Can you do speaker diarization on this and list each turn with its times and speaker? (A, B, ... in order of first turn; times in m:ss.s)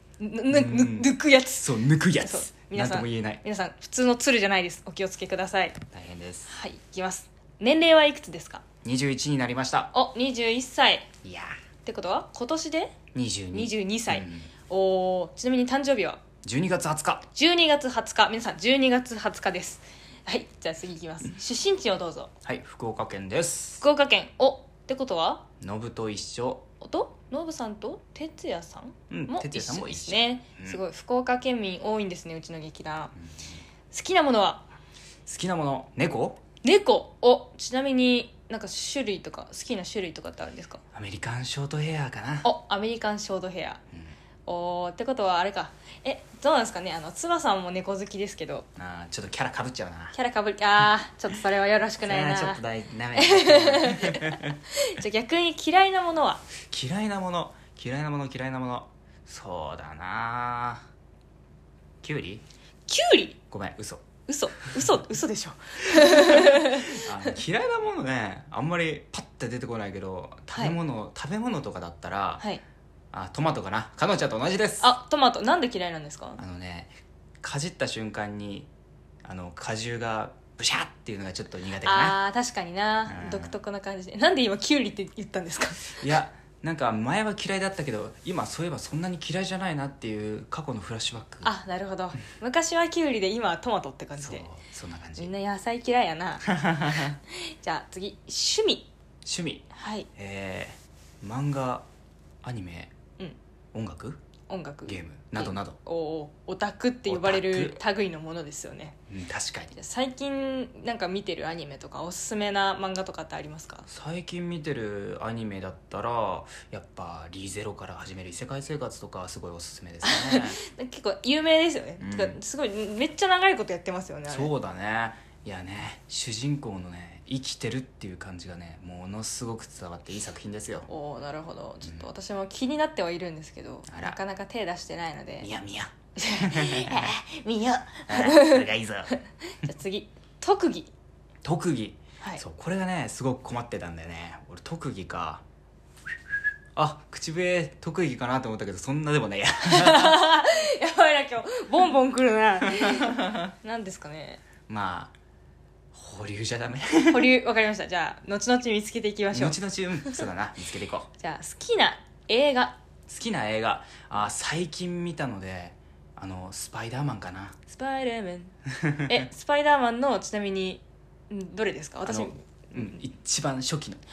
0:00.2-0:05.8 A
0:00.5-0:03.4 B
0:05.9-0:06.5 B
0:06.4-0:08.6 A
0:08.8-0:09.9 B
0:09.9-0:11.1 A
0:11.2-0:11.6 B
0:11.8-0:13.0 A
0:13.1-0:14.5 B
0:13.5-0:16.2 A
0:16.4-0:17.3 B
0:17.3-0:22.3 A
0:22.4-0:23.8 B
0:23.8-0:25.5 A
0:25.6-0:26.7 B
0:26.8-0:33.2 A
0:29.1-0:30.8 B
0:33.9-0:34.7 A
0:35.2-0:36.4 B
0:36.6-0:40.8 A
0:40.9-0:42.5 B
0:42.4-0:43.8 A
0:44.4-0:48.7 A
0:48.8-0:50.2 B
0:50.1-0:52.6 A
0:52.0-0:54.6 B
0:53.1-0:56.4 A
0:56.6-1:00.8 B
1:02.0-1:02.4 B
1:02.9-1:03.4 A
1:03.5-1:04.0 B
1:04.3-1:07.1 A
1:05.9-1:12.4 B
1:13.1-1:14.9 B
1:14.8-1:16.4 A
1:16.4-1:18.7 B
1:19.2-1:22.2 B
1:21.8-1:26.0 A
1:23.1-1:23.5 B
1:25.9-1:31.5 B
1:31.4-1:34.5 A
1:34.2-1:35.3 B
1:35.2-1:38.9 A
1:36.5-1:37.2 B
1:39.2-1:41.8 B
1:39.7-1:40.1 A
1:42.4-1:42.9 B
1:43.7-1:44.2 B
1:44.5-1:49.0 A
1:44.8-1:45.8 B
1:47.1-1:47.8 B
1:49.1-1:49.7 B
1:49.7-1:53.9 A
1:53.9-2:00.6 B
2:00.0-2:04.5 A
2:02.0-2:02.4 B
2:04.3-2:10.9 B
2:10.9-2:15.5 A
2:13.9-2:14.2 B
2:15.4-2:17.2 B
2:16.2-2:20.9 A
2:18.1-2:19.1 B
2:21.4-2:25.4 B
2:26.7-2:30.2 B
2:29.7-2:34.4 A
2:32.6-2:33.4 B
2:34.7-2:35.1 B
2:35.9-2:37.3 B
2:37.1-2:40.2 A
2:39.3-2:41.1 B
2:41.2-2:42.8 A
2:43.1-2:47.6 B
2:47.7-2:53.0 A
2:48.7-2:49.2 B
2:52.0-2:54.0 B